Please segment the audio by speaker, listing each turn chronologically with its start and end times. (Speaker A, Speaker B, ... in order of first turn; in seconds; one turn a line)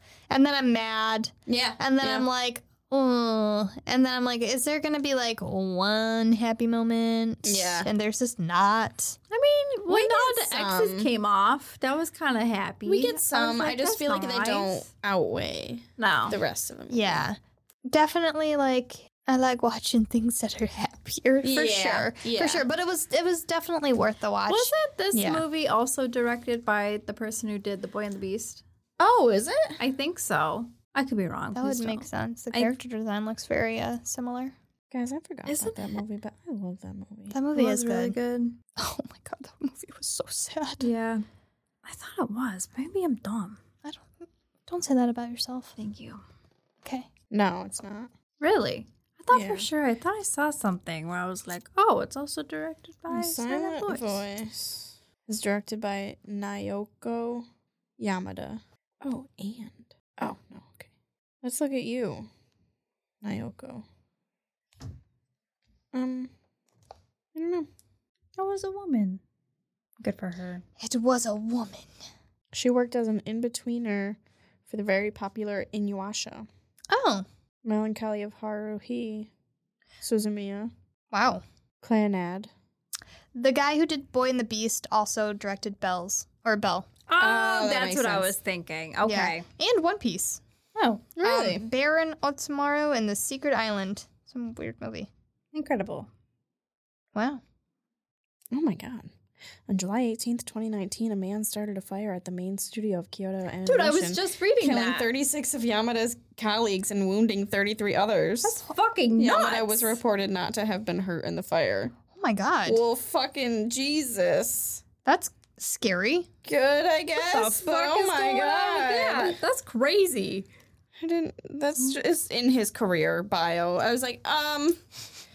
Speaker A: 0.3-9.2
Speaker B: 1.5-2.2
Speaker B: 7.4-7.9
Speaker C: 9.3-14.9
Speaker B: 9.9-11.1
Speaker B: 12.8-17.2
Speaker C: 16.0-16.4
Speaker A: 16.9-24.7
Speaker B: 21.4-22.7
Speaker C: 24.5-28.6
Speaker B: 25.1-25.4
Speaker B: 29.0-29.8
Speaker C: 29.8-32.7
Speaker A: 31.6-34.5
Speaker B: 34.9-37.4
Speaker C: 35.5-35.9
Speaker A: 37.3-38.2
Speaker C: 37.5-38.6
Speaker A: 38.8-40.9
Speaker C: 40.8-41.2
Speaker C: 41.8-43.6
Speaker A: 43.8-45.7
Speaker C: 45.8-46.2
Speaker B: 47.3-48.1
Speaker C: 48.4-54.2
Speaker B: 49.3-49.7
Speaker B: 53.1-57.5
Speaker B: 58.0-60.9
Speaker B: 61.4-62.3
Speaker B: 63.2-63.9
Speaker B: 65.9-66.3
Speaker B: 67.3-67.7
Speaker C: 68.4-69.2
Speaker C: 70.0-70.6
Speaker A: 70.8-71.9
Speaker B: 72.5-76.5
Speaker A: 76.9-77.2
Speaker B: 77.6-79.3
Speaker B: 80.0-80.7
Speaker A: 81.1-81.4
Speaker B: 81.8-82.5
Speaker A: 83.3-86.9
Speaker C: 87.1-89.5
Speaker B: 87.2-88.3
Speaker A: 89.0-90.4
Speaker C: 90.8-91.5
Speaker A: 91.2-95.1
Speaker B: 91.2-91.6
Speaker C: 95.5-96.1
Speaker A: 97.2-97.4
Speaker B: 98.5-99.1
Speaker B: 99.7-108.6
Speaker C: 103.7-105.1
Speaker C: 108.4-109.9
Speaker B: 109.2-111.9
Speaker A: 112.1-112.8
Speaker B: 112.7-114.8
Speaker A: 115.0-116.3
Speaker B: 116.4-119.4
Speaker C: 117.2-120.5
Speaker B: 121.0-124.8